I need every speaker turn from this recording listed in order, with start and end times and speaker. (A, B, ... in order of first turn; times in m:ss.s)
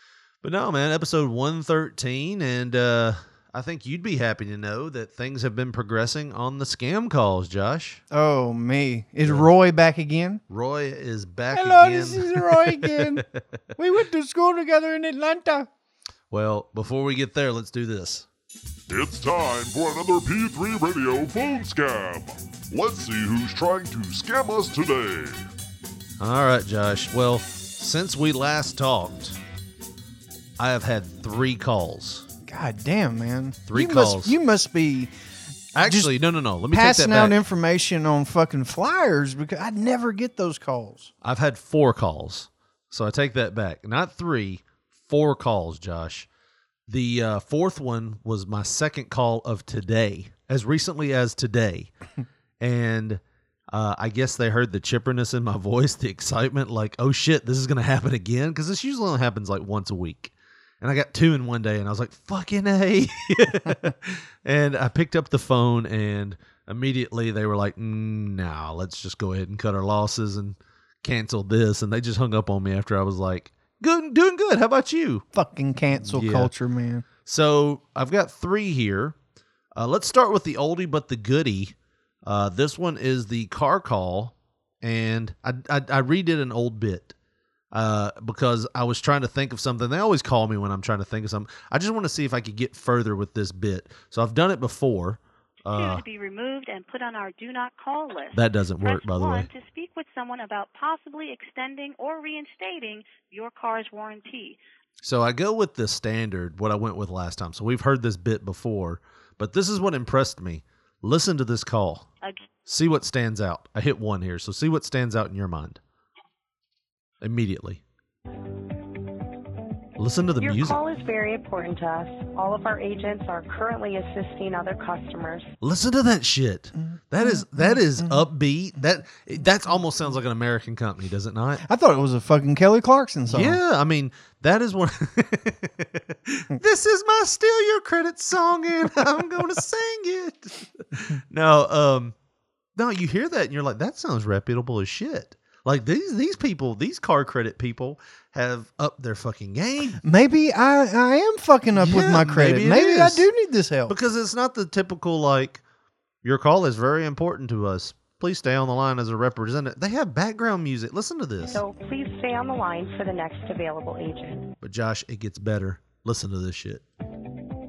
0:00.4-0:08.0 A
0:08.1-0:10.4 B
0:10.5-0:13.4 A
0:11.5-0:13.2 B
0:13.8-0:15.7 B
0:16.3-0:18.2 A
0:18.9-0:25.4 C
0:26.2-0:29.4 A
0:30.6-0:32.2 A
0:32.4-0:35.1 B
0:33.7-0:34.3 A
0:35.7-0:37.4 A
0:35.8-0:36.1 B
0:36.7-0:41.1 B
0:41.2-0:46.3 A
0:46.9-0:51.9 A
0:52.6-0:53.2 A
0:53.7-1:15.2 A
1:15.3-1:17.0 B
1:16.0-1:16.5 A
1:17.2-1:19.2 A
1:19.7-1:27.1 A
1:27.7-1:36.0 A
1:35.7-1:44.6 D
1:38.3-1:39.5 A
1:45.0-1:52.1 A
1:52.6-1:55.8 A
1:57.2-1:57.8 A
2:00.0-2:00.8 A
2:00.4-2:05.5 E
2:05.6-2:11.6 A
2:07.2-2:08.2 B
2:11.6-2:13.6 B
2:13.3-2:22.1 A
2:22.8-2:30.0 A
2:30.0-2:33.9 B
2:31.7-2:33.3 A
2:33.9-2:35.6 A
2:36.2-2:41.6 A
2:41.5-2:44.5 E
2:44.6-2:46.8 A